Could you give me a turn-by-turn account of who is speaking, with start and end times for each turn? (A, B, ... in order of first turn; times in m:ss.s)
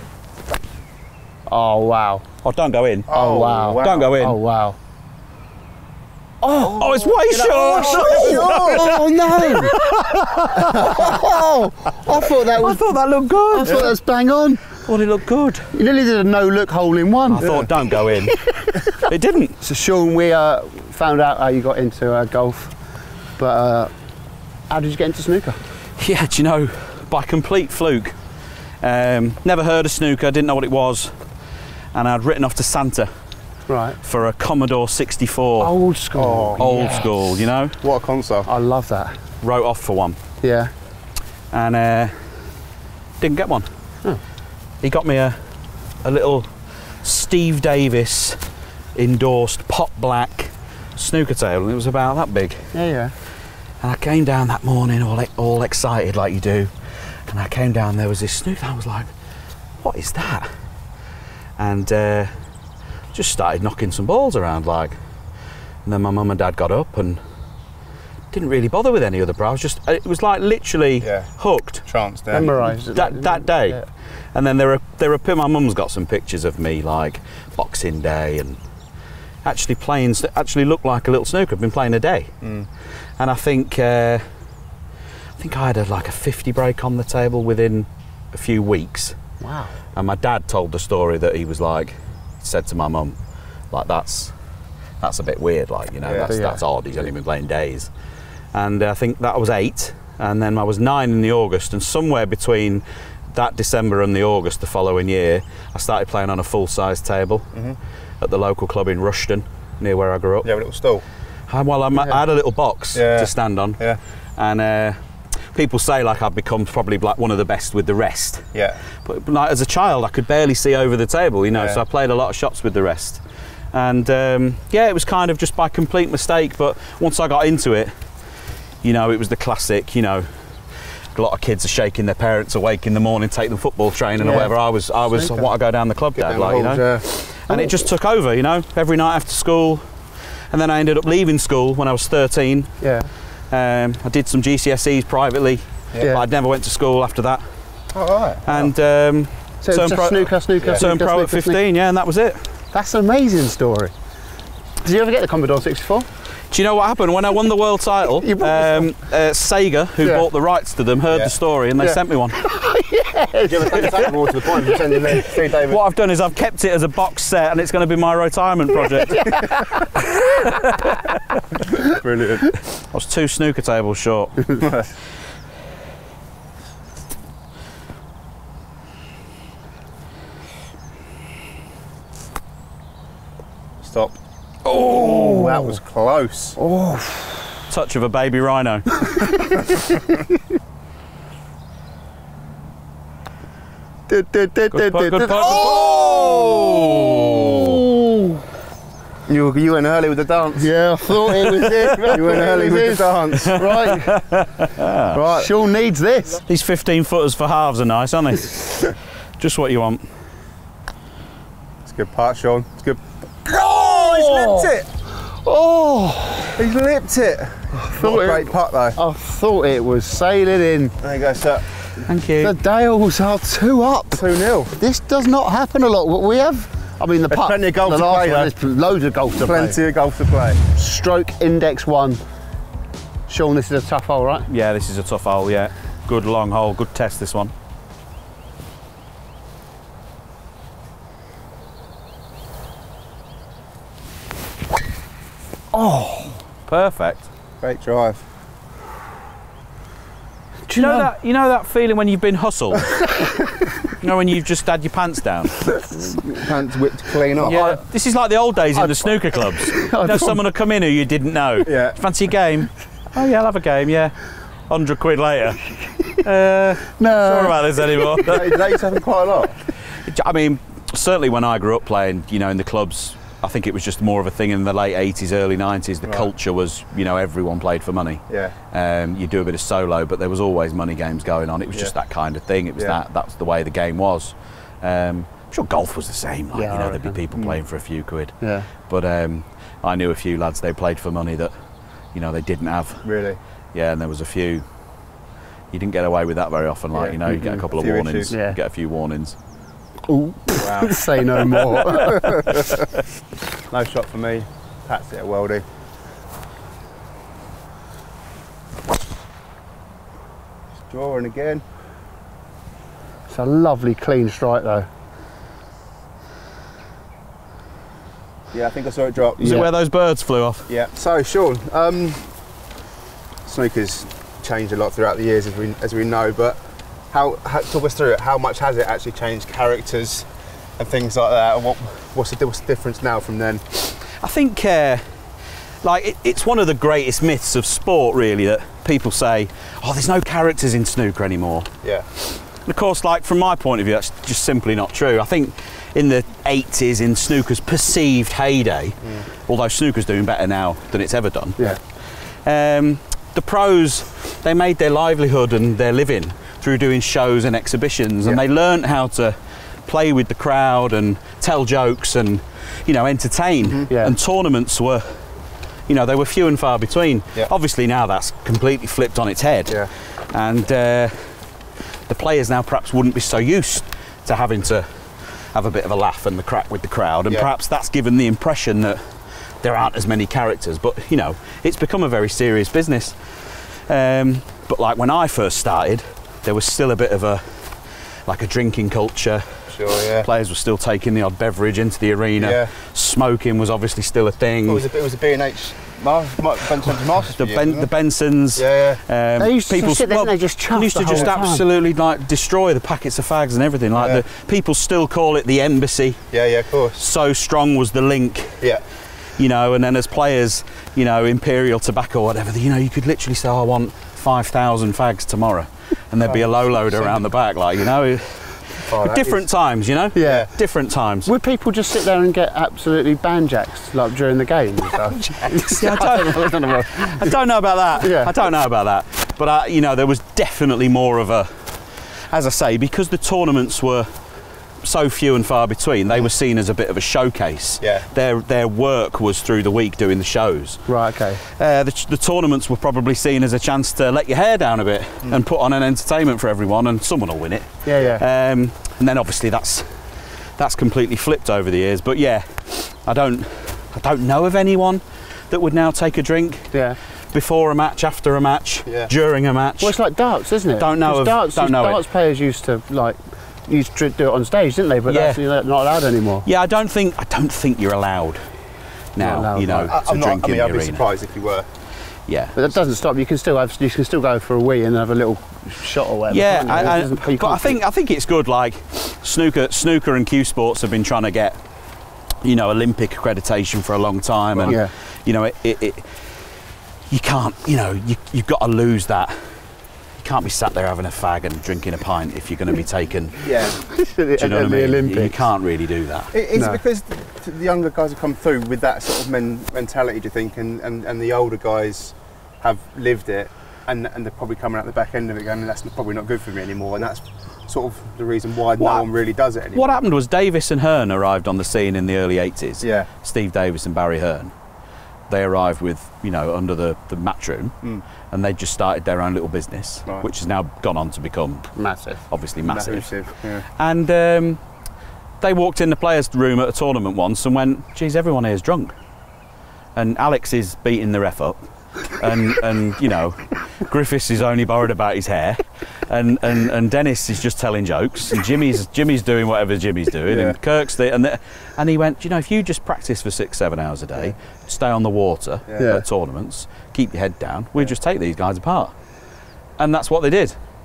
0:01.5-0:02.2 A
0:02.4-0:03.1 B
0:03.1-0:04.2 C
0:03.1-0:04.8 A
0:03.8-0:04.4 B
0:06.4-0:12.9 A
0:06.6-0:09.0 C
0:06.8-0:11.3 B
0:12.1-0:13.9 B
0:13.5-0:14.6 A
0:14.8-0:15.7 B
0:15.7-0:17.6 A
0:17.3-0:18.4 B
0:17.4-0:17.7 C
0:18.2-0:19.0 A
0:19.0-0:19.6 B
0:19.6-0:22.7 A
0:23.4-0:23.9 A
0:24.7-0:25.6 A
0:26.0-0:28.1 B
0:28.8-0:31.2 B
0:31.9-0:33.1 B
0:33.7-0:34.0 A
0:34.0-0:35.7 B
0:35.6-0:37.2 A
0:36.2-0:36.6 C
0:36.6-0:37.8 B
0:37.8-0:38.5 C
0:38.4-0:39.2 A
0:39.4-0:40.2 B
0:40.4-0:40.7 A
0:41.5-0:42.2 B
0:43.2-0:43.7 B
0:44.8-0:45.4 B
0:46.0-0:46.5 B
0:47.0-0:48.4 B
0:48.9-0:52.7 B
0:52.7-0:53.1 A
0:53.8-0:56.7 B
0:57.3-0:59.1 B
0:59.8-1:00.5 B
1:01.6-1:02.3 B
1:03.1-1:05.0 B
1:05.8-1:07.2 B
1:08.3-1:11.8 B
1:11.0-1:11.3 C
1:11.8-1:12.7 C
1:12.3-1:13.8 A
1:12.4-1:13.8 B
1:14.3-1:18.6 B
1:19.4-1:22.3 B
1:22.4-1:22.7 C
1:23.2-1:24.2 B
1:25.4-1:29.2 B
1:29.4-1:29.7 A
1:29.9-1:33.2 B
1:33.7-1:34.3 B
1:35.0-1:37.9 B
1:36.0-1:36.4 C
1:36.2-1:36.6 A
1:38.5-1:47.5 B
1:48.2-1:50.5 B
1:50.4-1:51.0 C
1:51.5-1:53.8 B
1:52.9-1:54.0 C
1:54.4-1:58.5 B
1:58.5-1:58.8 C
1:59.0-2:03.2 B
2:01.5-2:01.8 C
2:03.7-2:07.9 B
2:08.8-2:10.3 B
2:11.1-2:19.8 B
2:14.2-2:14.5 A
2:15.1-2:15.5 A
2:16.2-2:17.0 C
2:17.5-2:17.8 A
2:20.5-2:22.8 B
2:22.8-2:23.1 A
2:23.5-2:27.4 B
2:27.9-2:28.7 C
2:28.4-2:32.5 B
2:29.6-2:31.6 A
2:30.6-2:30.8 C
2:32.7-2:33.9 A
2:34.8-2:36.1 A
2:36.5-2:42.4 B
2:38.2-2:38.9 A
2:41.8-2:44.7 A
2:43.4-2:45.8 C
2:45.6-2:49.7 B
2:49.0-2:50.4 A
2:50.4-2:50.9 B
2:51.8-2:52.6 C
2:52.9-2:54.5 B
2:54.6-2:54.9 C
3:03.8-3:04.2 C
3:04.6-3:05.8 A
3:04.9-3:06.6 C
3:06.6-3:07.5 A
3:07.7-3:09.1 B
3:09.1-3:10.2 A
3:14.1-3:18.4 A
3:14.7-3:17.8 B
3:19.3-3:20.7 C
3:20.6-3:24.2 A
3:22.1-3:23.6 C
3:23.4-3:25.2 B
3:25.1-3:25.5 C
3:25.2-3:26.4 A
3:26.5-3:30.0 B
3:31.8-3:34.9 C
3:33.5-3:36.6 A
3:36.6-3:39.0 C
3:37.7-3:40.9 A
3:41.0-3:41.6 C
3:42.0-3:42.5 B
3:42.4-3:49.8 A
3:44.1-3:44.7 C
3:47.3-3:48.5 C
3:49.3-3:50.6 C
3:50.7-3:52.2 A
3:53.3-3:54.5 A
3:54.5-3:57.5 B
4:05.7-4:06.4 A
4:06.7-4:07.3 B
4:07.6-4:08.2 C
4:10.7-4:11.1 A
4:10.8-4:15.6 B
4:13.1-4:13.5 A
4:15.7-4:16.2 A
4:16.2-4:17.6 C
4:17.4-4:24.2 B
4:17.5-4:17.8 A
4:18.7-4:20.4 A
4:21.6-4:22.0 C
4:24.7-4:28.7 B
4:27.0-4:28.1 A
4:28.2-4:29.6 C
4:29.9-4:51.5 B
4:36.0-4:36.3 C
4:38.3-4:38.5 C
4:46.5-4:47.2 A
4:48.4-4:48.7 A
4:52.1-4:53.0 B
4:53.0-4:53.4 C
4:53.7-4:54.6 B
4:55.7-4:59.4 B
4:56.9-4:58.3 C
4:58.3-4:58.6 A
5:00.1-5:02.6 A
5:00.6-5:01.2 C
5:02.1-5:02.6 C
5:03.7-5:05.6 C
5:10.9-5:11.6 C
5:13.3-5:14.9 A
5:18.5-5:19.5 C
5:19.4-5:19.7 A
5:19.4-5:20.7 B
5:20.7-5:22.3 C
5:23.4-5:26.6 C
5:27.1-5:33.6 C
5:34.2-5:35.1 B
5:35.8-5:41.7 B
5:42.2-6:05.3 B
6:03.9-6:04.1 A
6:05.9-6:11.4 B
6:12.1-6:27.7 B
6:28.2-6:34.8 B
6:29.7-6:30.3 C
6:32.4-6:32.7 C
6:34.6-6:37.9 C
6:37.3-6:46.2 B
6:38.6-6:39.0 C
6:39.4-6:41.6 A
6:43.9-6:44.2 C
6:46.3-6:47.0 C
6:47.0-6:48.6 B
6:49.4-7:01.3 B
6:56.2-6:57.2 C
6:58.8-6:59.4 C
7:00.1-7:00.5 A
7:01.2-7:07.3 A
7:05.4-7:14.1 B
7:08.0-7:08.3 A
7:14.8-7:20.9 B
7:20.9-7:21.4 A
7:21.4-7:36.7 B
7:27.8-7:28.2 A
7:37.3-7:40.0 B
7:38.8-7:39.1 C
7:39.8-7:46.4 A
7:40.8-7:42.0 B
7:45.1-7:45.4 B
7:46.4-7:48.5 B
7:49.1-7:51.0 B
7:49.2-7:49.9 A
7:49.8-7:51.7 C
7:52.3-7:52.6 B
7:52.5-7:57.8 A
7:56.3-8:01.6 B
8:02.4-8:06.2 B
8:04.5-8:04.8 C
8:07.1-8:09.6 B
8:10.2-8:13.6 B
8:13.4-8:13.8 C
8:13.8-8:15.4 A
8:14.4-8:16.3 B
8:16.3-8:30.0 C
8:16.5-8:16.8 A
8:28.8-8:29.1 B
8:29.7-8:34.5 B
8:32.8-8:33.1 C
8:35.3-8:37.8 B
8:38.3-8:41.7 B
8:41.8-8:42.2 A
8:42.3-8:43.2 B
8:42.6-8:43.6 C
8:43.8-8:44.6 B
8:45.4-8:49.0 B
8:50.0-8:51.6 B
8:52.1-9:08.9 B
9:00.3-9:00.6 C
9:05.8-9:06.0 A
9:09.8-9:10.6 B